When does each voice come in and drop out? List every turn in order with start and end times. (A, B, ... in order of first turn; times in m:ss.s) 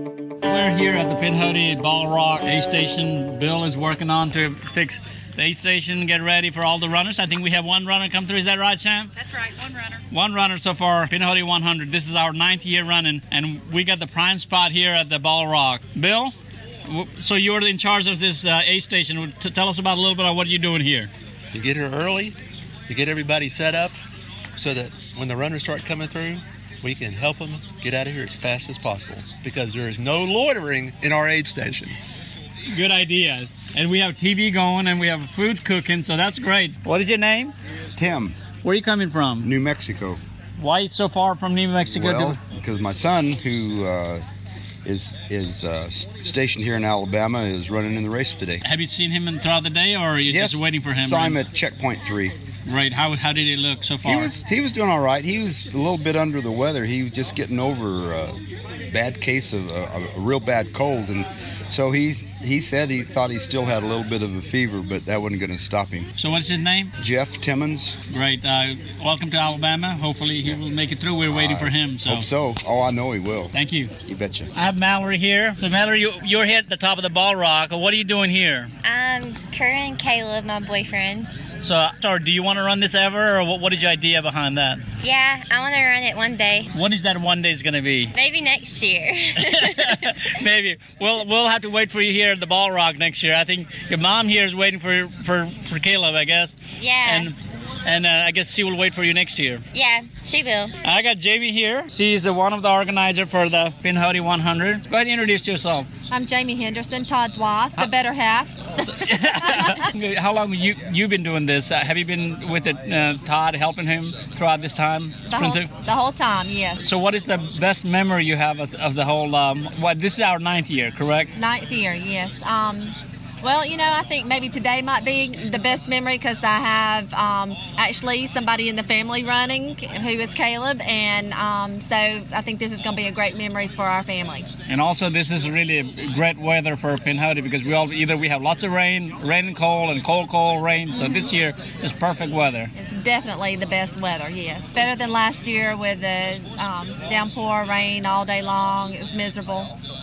0:00.4-0:09.1 A
0:10.1-0:16.3 A
0:16.9-0:21.1 A
0:21.5-0:22.4 B
0:22.9-0:24.0 B
0:24.6-0:32.0 B
0:32.7-0:37.5 A
0:38.0-0:38.4 C
0:38.6-0:39.5 A
0:39.4-0:40.2 C
0:40.6-0:42.4 A
0:41.8-0:44.2 C
0:44.8-0:48.6 C
0:48.6-0:51.4 A
0:50.3-0:52.4 C
0:52.7-0:54.4 A
0:54.0-1:06.1 C
1:06.2-1:06.9 A
1:07.0-1:08.0 C
1:08.1-1:12.3 A
1:11.3-1:13.5 C
1:13.5-1:13.9 A
1:14.1-1:14.5 C
1:14.6-1:18.7 A
1:18.8-1:21.3 D
1:21.6-1:24.8 A
1:25.0-1:26.7 D
1:26.7-1:28.1 A
1:28.1-1:29.9 D
1:29.4-1:39.6 A
1:36.8-1:37.3 D
1:39.7-1:40.7 D
1:40.8-1:45.9 A
1:46.1-1:48.6 E
1:48.8-1:55.7 A
1:49.4-1:49.7 E
1:55.3-1:56.8 E
1:56.8-2:01.3 A
2:01.4-2:14.5 E
2:14.7-2:22.7 A
2:22.8-2:29.7 E